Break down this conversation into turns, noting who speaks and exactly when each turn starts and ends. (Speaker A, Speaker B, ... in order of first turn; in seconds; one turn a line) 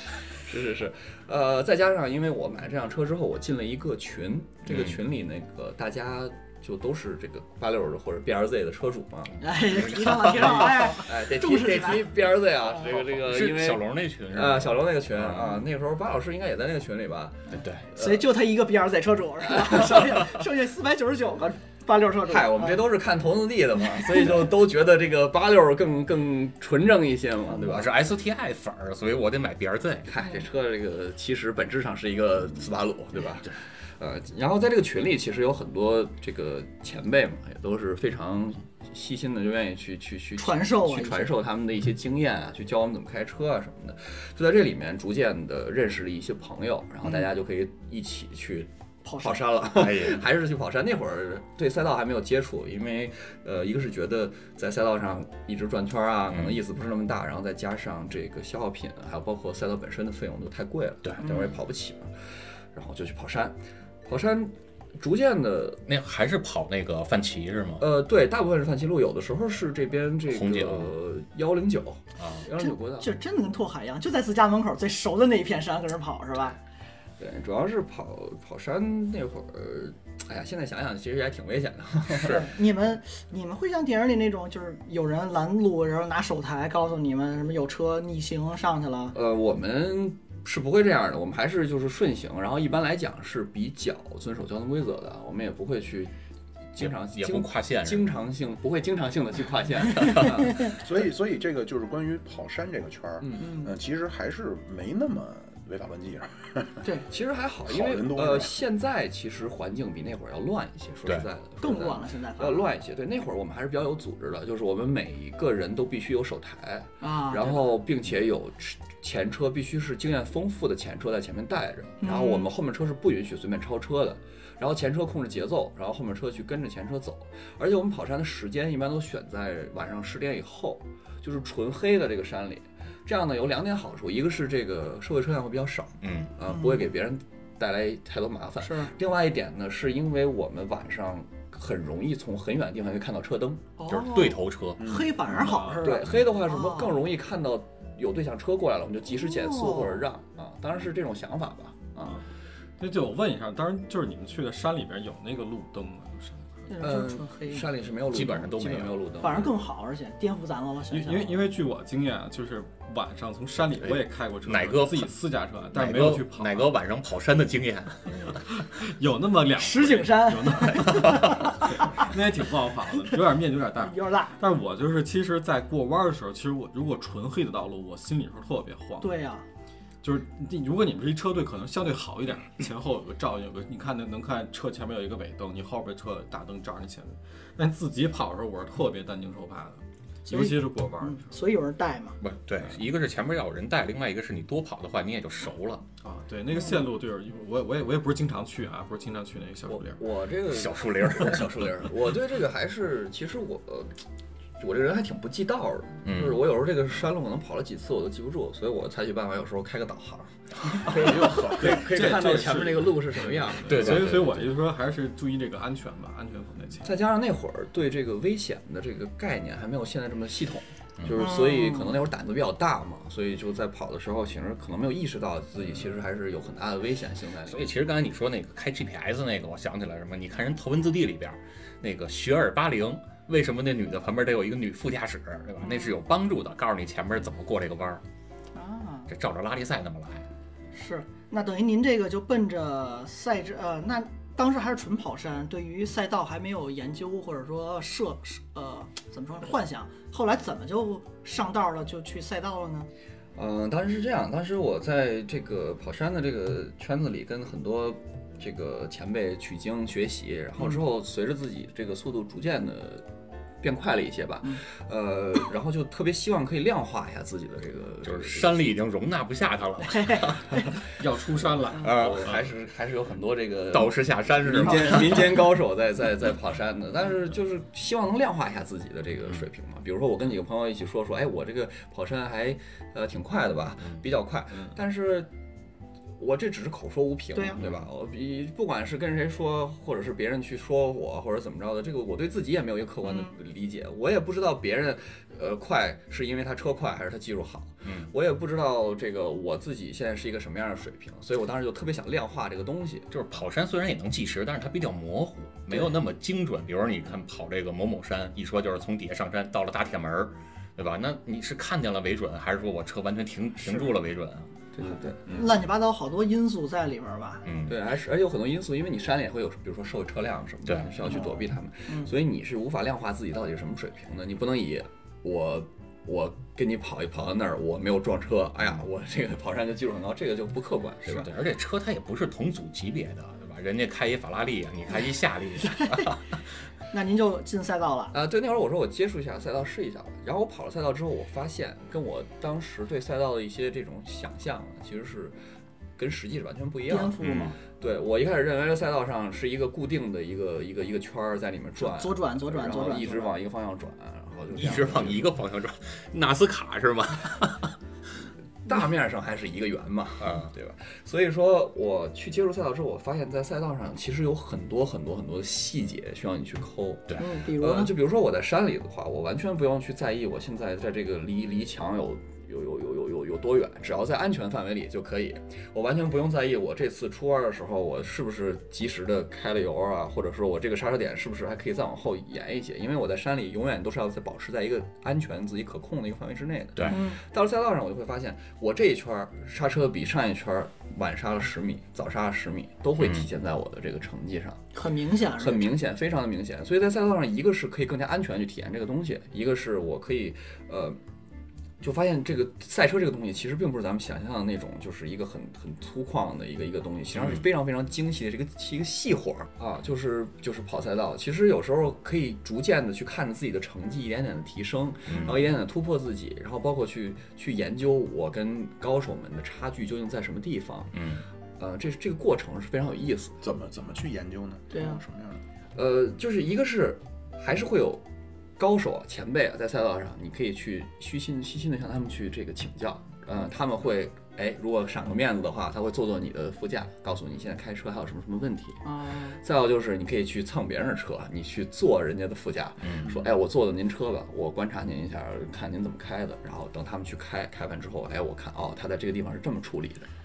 Speaker A: 0.4-9.4
Speaker B: 4.7-5.0
Speaker C: 9.4-12.1
Speaker B: 9.7-10.9
Speaker A: 10.3-18.2
Speaker B: 12.8-15.6
Speaker B: 17.5-17.9
Speaker C: 17.9-22.9
Speaker A: 22.3-27.9
Speaker B: 27.5-30.1
Speaker A: 30.1-62.1
Speaker C: 40.4-41.4
Speaker C: 49.0-49.5
Speaker B: 49.8-50.2
Speaker B: 56.3-56.6
Speaker A: 62.7-65.8
Speaker B: 65.9-67.8
Speaker A: 67.8-73.1
Speaker B: 70.3-70.9
Speaker B: 72.2-72.4
Speaker C: 72.6-76.6
Speaker A: 77.2-82.5
Speaker B: 82.1-82.5
Speaker C: 82.2-89.1
Speaker A: 89.1-96.1
Speaker A: 96.7-100.8
Speaker B: 96.8-98.0
Speaker B: 100.0-100.2
Speaker D: 100.7-106.8
Speaker A: 103.2-103.5
Speaker C: 103.4-103.7
Speaker A: 107.1-143.6
Speaker D: 107.7-108.6
Speaker C: 111.6-112.7
Speaker C: 117.0-117.7
Speaker C: 122.0-122.5
Speaker B: 136.0-136.3
Speaker C: 136.5-136.8
Speaker C: 138.6-138.9
Speaker C: 143.8-146.9
Speaker B: 143.9-144.8
Speaker D: 144.8-145.6
Speaker E: 145.3-145.9
Speaker A: 145.8-152.2
Speaker C: 149.2-150.1
Speaker E: 152.8-156.7
Speaker C: 156.7-157.7
Speaker A: 156.8-159.6
Speaker B: 158.1-159.0
Speaker C: 159.2-161.5
Speaker E: 160.9-166.7
Speaker B: 163.8-165.1
Speaker B: 165.7-168.4
Speaker E: 168.2-179.1
Speaker C: 169.6-172.1
Speaker B: 171.1-171.4
Speaker C: 173.8-174.4
Speaker C: 179.0-179.4
Speaker E: 180.0-191.3
Speaker C: 190.3-192.2
Speaker B: 192.2-195.8
Speaker E: 196.0-200.0
Speaker C: 196.6-196.8
Speaker A: 199.7-204.0
Speaker B: 200.5-201.7
Speaker A: 204.6-214.1
Speaker B: 206.0-206.4
Speaker D: 210.9-211.8
Speaker E: 211.4-216.9
Speaker B: 213.7-214.4
Speaker A: 216.8-227.7
Speaker C: 221.1-221.9
Speaker B: 227.5-238.0
Speaker C: 235.6-236.0
Speaker C: 238.5-239.1
Speaker B: 239.1-240.2
Speaker C: 240.7-252.9
Speaker A: 253.3-263.0
Speaker A: 263.6-268.7
Speaker B: 268.0-270.4
Speaker C: 269.9-270.6
Speaker E: 270.9-272.3
Speaker A: 271.8-285.3
Speaker B: 271.8-272.4
Speaker B: 273.7-275.4
Speaker A: 286.2-303.1
Speaker C: 287.3-287.6
Speaker C: 293.1-293.3
Speaker B: 297.8-298.1
Speaker B: 303.1-314.5
Speaker C: 313.6-313.9
Speaker A: 314.7-315.4
Speaker C: 315.3-317.4
Speaker B: 317.4-317.7
Speaker A: 317.7-331.3
Speaker B: 331.1-336.2
Speaker C: 335.6-336.1
Speaker C: 336.9-338.1
Speaker A: 338.1-345.4
Speaker A: 346.0-355.3
Speaker C: 346.9-347.6
Speaker B: 347.2-347.5
Speaker C: 351.8-353.3
Speaker B: 354.5-357.7
Speaker A: 358.6-394.6
Speaker B: 360.2-360.5
Speaker C: 367.2-367.9
Speaker C: 386.9-387.2
Speaker B: 393.0-393.2
Speaker C: 394.7-395.7
Speaker A: 395.4-401.0
Speaker A: 401.8-421.0
Speaker B: 407.1-407.4
Speaker B: 415.1-415.4
Speaker B: 420.9-421.2
Speaker A: 421.6-423.4
Speaker D: 423.4-425.4
Speaker C: 424.7-425.0
Speaker A: 425.7-428.0
Speaker A: 428.6-438.8
Speaker C: 438.8-439.4
Speaker A: 439.4-450.1
Speaker B: 442.8-443.1